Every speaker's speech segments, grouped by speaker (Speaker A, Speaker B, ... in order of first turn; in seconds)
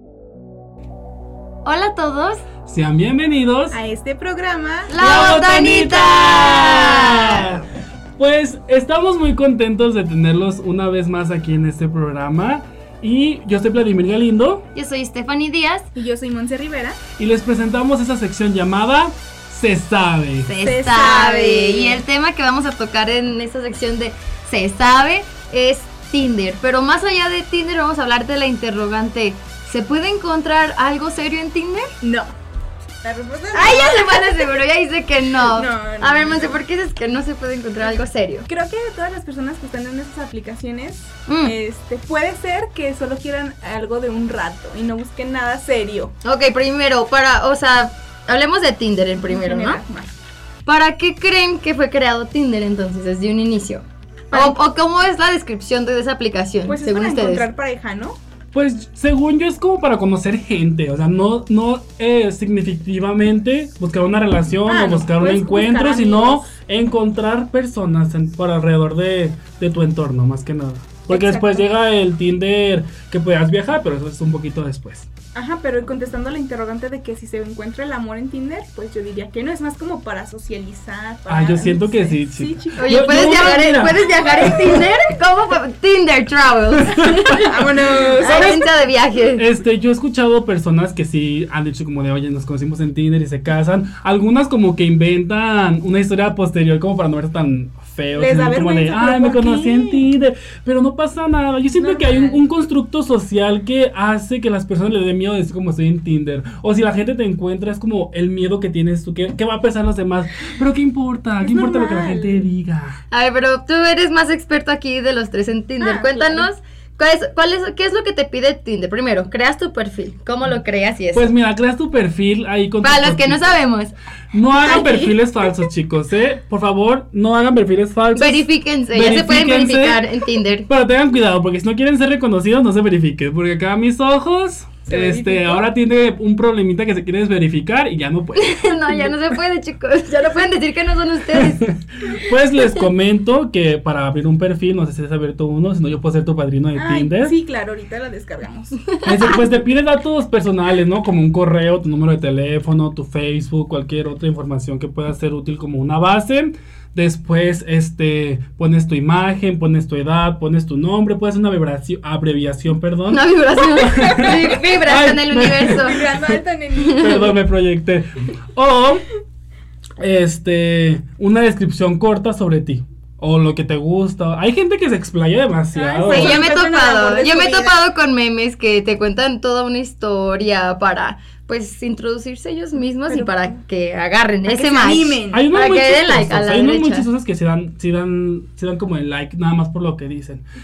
Speaker A: 1.6-2.4, 4.9-7.6, 14.8-15.9, 20.4-31.9, 33.5-38.5, 41.3-41.5, 46.2-49.8, 50.7-57.5, 82.8-87.5, 88.2-89.5, 113.1-121.3, 122.8-123.9, 128.2-130.7, 138.4-142.2, 163.1-166.0, 166.8-167.3, 176.1-187.1
Speaker B: 2.7-3.8, 5.0-7.6, 8.2-14.7, 17.2-20.5, 58.5-75.1, 81.3-84.9, 86.8-88.6, 89.3-113.0, 121.1-123.6, 124.3-130.0, 130.7-139.1, 141.3-147.3, 149.0-166.4, 166.9-169.0, 170.0-176.4, 185.3-190.4
Speaker C: 3.7-5.0, 16.0-17.0, 20.6-22.0, 32.0-32.3, 33.0-34.6, 35.5-36.5, 38.5-46.1, 49.3-50.1, 54.3-54.6, 56.7-58.2, 64.7-66.5, 71.1-71.7, 75.3-83.8, 87.3-88.7, 98.1-100.0, 101.8-102.4, 111.4-112.5, 115.8-116.5, 124.5-125.5, 134.9-135.7, 146.8-148.9, 164.0-164.4, 165.6-167.3, 175.7-177.8, 183.1-183.6, 184.5-185.4